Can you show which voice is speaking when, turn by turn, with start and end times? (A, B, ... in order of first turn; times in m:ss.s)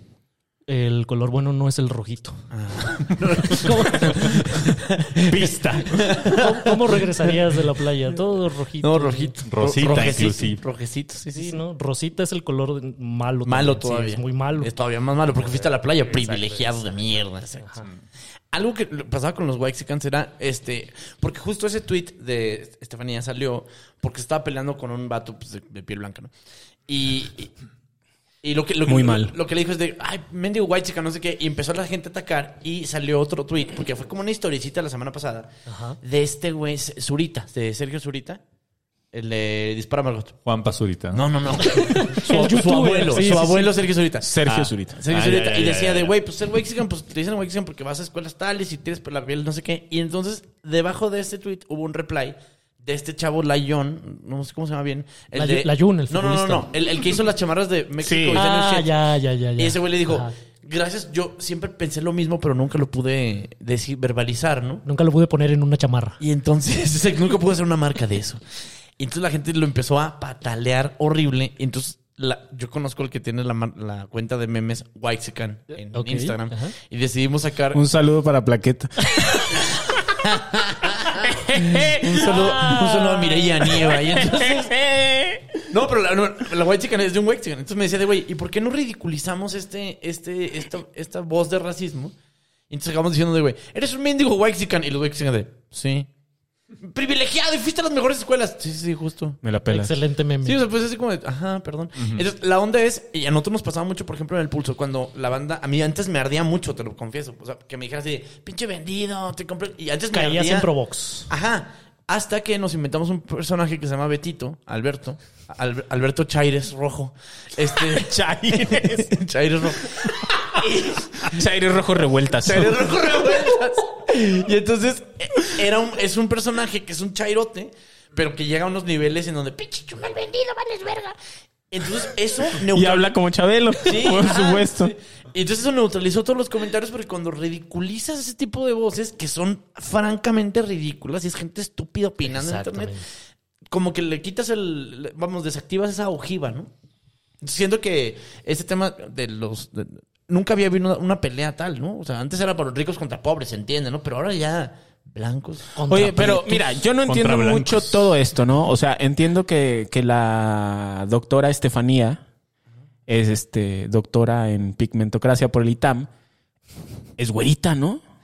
0:00.7-0:02.4 A
0:02.5-0:07.4 B
0:03.4-0:04.5 A
0:05.3-0:06.1 C
0:06.2-0:10.4 A
0:08.8-0:11.6 B
0:09.5-0:10.6 C
0:11.4-0:14.7 A
0:13.5-0:17.8 B
0:15.4-0:16.7 A
0:17.6-0:17.9 A
0:18.5-0:26.3 B
0:26.9-0:27.5 B
0:28.4-0:38.4 B
0:28.9-0:29.3 D
0:35.7-0:36.0 A
0:39.1-0:40.4 B
0:40.4-0:41.2 C
0:41.1-0:44.3 B
0:41.8-0:43.8 A
0:44.2-0:45.0 D
0:44.5-0:46.1 C
0:45.0-0:58.9 B
0:55.4-0:56.7 A
0:58.0-0:58.4 D
0:58.3-1:00.3 A
0:59.6-1:04.8 B
1:04.9-1:06.2 A
1:06.2-1:08.4 B
1:09.0-1:17.8 B
1:15.9-1:16.7 A
1:17.7-1:19.2 D
1:20.3-1:24.7 B
1:21.3-1:25.6 D
1:25.7-1:32.1 B
1:32.7-1:36.1 B
1:36.8-1:39.4 B
1:39.4-1:40.0 D
1:39.7-1:40.6 A
1:40.4-1:50.7 B
1:42.0-1:42.2 C
1:50.1-1:51.3 A
1:51.3-2:01.4 B
1:57.9-1:59.1 D
2:01.3-2:02.9 D
2:02.4-2:11.2 B
2:11.7-2:13.1 B
2:12.7-2:14.9 D
2:13.8-2:23.0 B
2:22.2-2:23.0 A
2:23.7-2:26.7 B
2:27.4-2:35.8 B
2:35.8-2:36.6 A
2:35.9-2:42.2 D
2:37.0-2:38.1 C
2:43.1-2:46.1 D
2:47.2-2:48.0 D